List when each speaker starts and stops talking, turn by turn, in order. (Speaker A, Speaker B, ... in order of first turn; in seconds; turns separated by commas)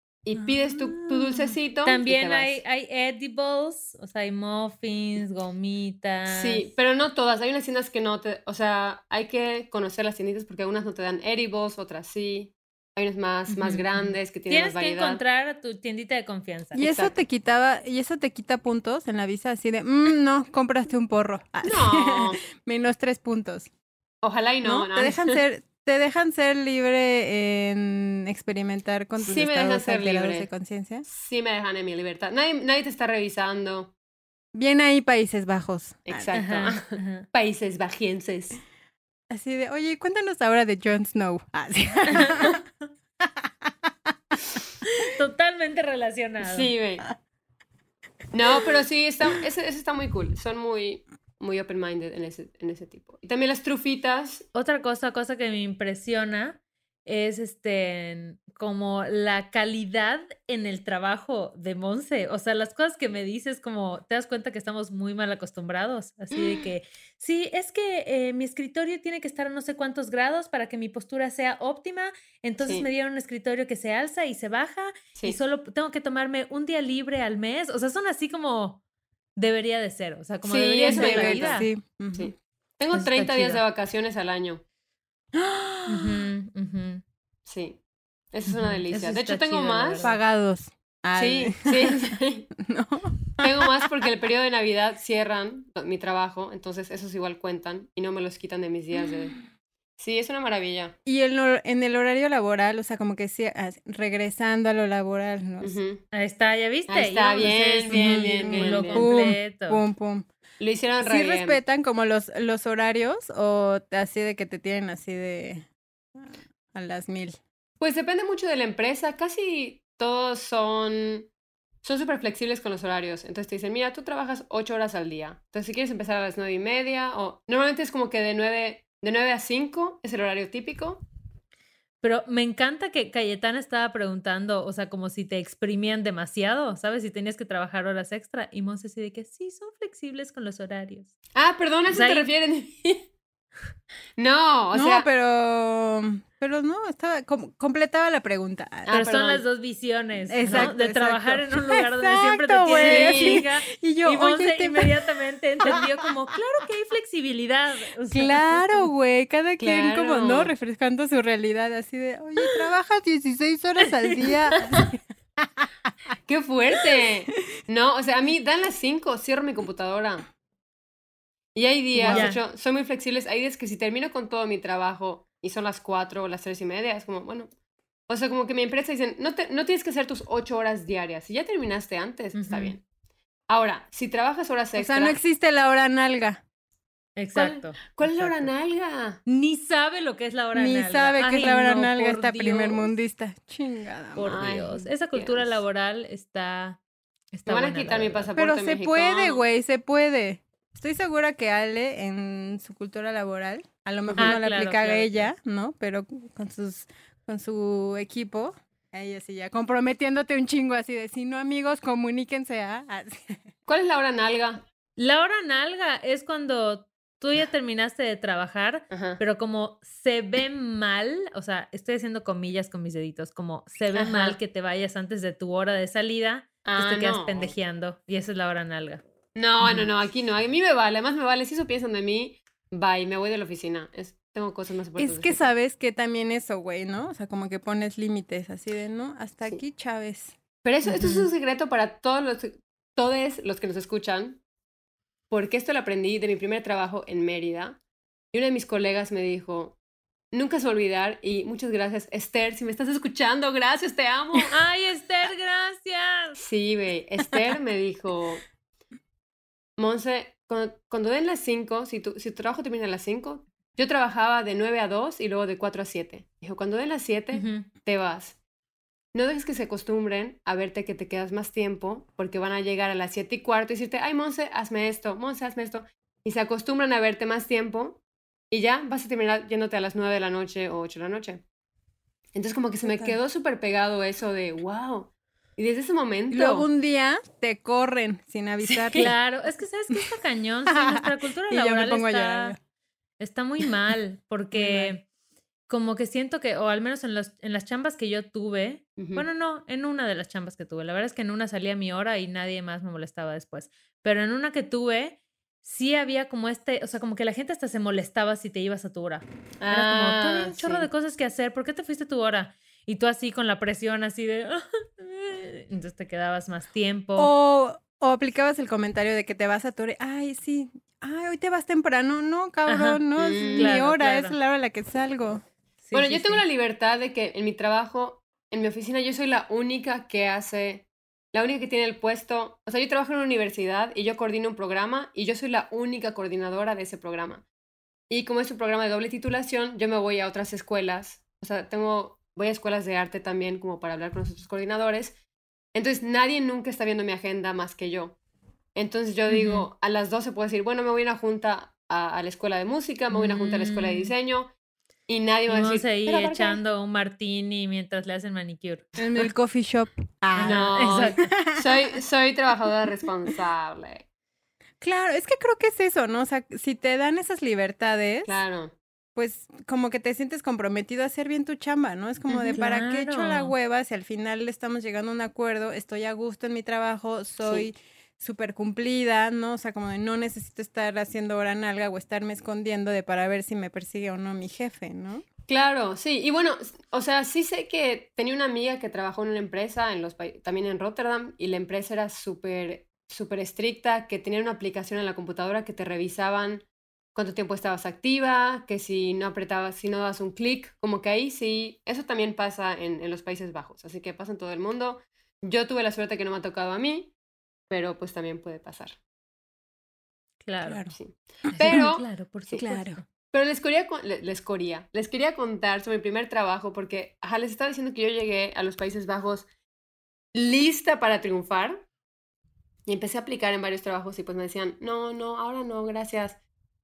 Speaker A: 0.2-2.6, Speaker B: 0.6-1.5, Speaker C: 1.9-6.7, Speaker A: 6.3-15.2, Speaker C: 13.5-16.8, Speaker A: 16.8-17.1, Speaker B: 16.8-23.7, Speaker A: 21.6-22.4, Speaker A: 24.2-25.4, Speaker B: 24.6-31.1, Speaker A: 29.2-30.5, Speaker A: 31.1-33.9, Speaker B: 34.5-36.3, Speaker A: 36.1-38.6, Speaker C: 36.4-37.3, Speaker B: 39.3-42.6, Speaker B: 43.5-43.7, Speaker C: 45.0-46.7, Speaker A: 46.4-47.0, Speaker A: 48.3-54.5, Speaker C: 54.5-78.8, Speaker A: 72.6-72.9, Speaker C: 79.4-81.7, Speaker A: 80.5-84.6, Speaker B: 80.9-82.3, Speaker C: 82.9-83.6, Speaker B: 85.4-86.2, Speaker C: 85.9-87.0, Speaker A: 87.5-87.8, Speaker A: 88.3-90.1, Speaker C: 88.5-90.2, Speaker B: 90.0-93.4, Speaker A: 91.2-92.5, Speaker A: 93.4-99.4, Speaker A: 100.0-101.0, Speaker B: 101.1-105.8, Speaker A: 105.6-106.0, Speaker C: 106.1-109.8, Speaker A: 106.9-109.1, Speaker B: 107.4-110.3, Speaker A: 110.6-111.6, Speaker B: 111.0-115.7, Speaker B: 116.2-117.4, Speaker A: 117.8-121.3, Speaker A: 121.8-131.0, Speaker C: 132.0-141.1, Speaker A: 141.3-143.1, Speaker C: 141.9-142.3, Speaker A: 144.2-145.1, Speaker B: 144.7-149.0, Speaker A: 148.9-149.4, Speaker C: 148.9-158.9, Speaker B: 150.3-154.9, Speaker A: 150.5-150.7, Speaker A: 152.7-153.4, Speaker B: 158.1-165.7, Speaker A: 159.6-160.5, Speaker A: 166.3-170.3, Speaker A: 171.6-177.5, Speaker B: 171.9-172.3, Speaker C: 172.1-172.4, Speaker A: 178.1-182.8, Speaker C: 182.3-182.8, Speaker A: 183.5-185.2, Speaker B: 184.8-186.4, Speaker C: 187.2-188.5, Speaker A: 187.3-189.2, Speaker C: 189.3-192.9, Speaker B: 190.5-194.4, Speaker C: 194.2-196.8, Speaker A: 194.2-195.6, Speaker C: 197.3-198.3, Speaker A: 197.5-199.4, Speaker B: 198.4-213.4, Speaker A: 204.1-204.4, Speaker C: 204.2-205.3, Speaker A: 213.7-214.7, Speaker C: 215.0-229.0, Speaker A: 218.9-219.2, Speaker A: 223.9-224.4, Speaker A: 226.7-227.5, Speaker A: 229.3-235.5, Speaker B: 235.0-240.4, Speaker A: 240.6-244.4, Speaker C: 240.9-241.3, Speaker A: 245.3-247.8, Speaker A: 248.3-249.8, Speaker A: 250.3-254.6, Speaker C: 254.5-256.4, Speaker A: 256.4-258.4, Speaker A: 259.8-268.4, Speaker C: 267.3-267.7, Speaker A: 269.1-278.0, Speaker A: 278.5-281.4, Speaker A: 282.4-286.7, Speaker B: 282.9-283.2, Speaker B: 286.3-289.1, Speaker A: 288.6-289.1, Speaker C: 289.0-292.6, Speaker B: 290.7-292.6, Speaker C: 293.2-295.1, Speaker B: 294.5-294.9, Speaker C: 295.7-317.3, Speaker A: 299.0-299.3, Speaker A: 309.6-310.9, Speaker B: 317.2-325.4, Speaker C: 322.7-323.0, Speaker A: 323.2-323.8, Speaker C: 323.6-324.4, Speaker C: 325.8-326.4, Speaker A: 325.9-337.4, Speaker A: 338.1-345.2, Speaker A: 345.7-348.2, Speaker A: 348.8-354.5, Speaker C: 349.3-349.7, Speaker C: 353.1-354.1, Speaker A: 355.1-356.6, Speaker C: 355.5-358.9, Speaker B: 359.0-361.8, Speaker C: 360.4-361.3, Speaker A: 360.4-364.1, Speaker B: 364.8-368.4, Speaker A: 368.3-368.8, Speaker B: 369.2-385.2, Speaker A: 372.3-372.6, Speaker C: 372.5-373.5, Speaker A: 385.5-407.1, Speaker A: 407.7-409.0, Speaker C: 410.4-410.9, Speaker B: 410.7-410.9, Speaker A: 410.9-412.6, Speaker C: 411.5-413.0, Speaker B: 412.6-413.0, Speaker A: 413.3-419.5, Speaker A: 420.3-421.9, Speaker A: 422.9-426.4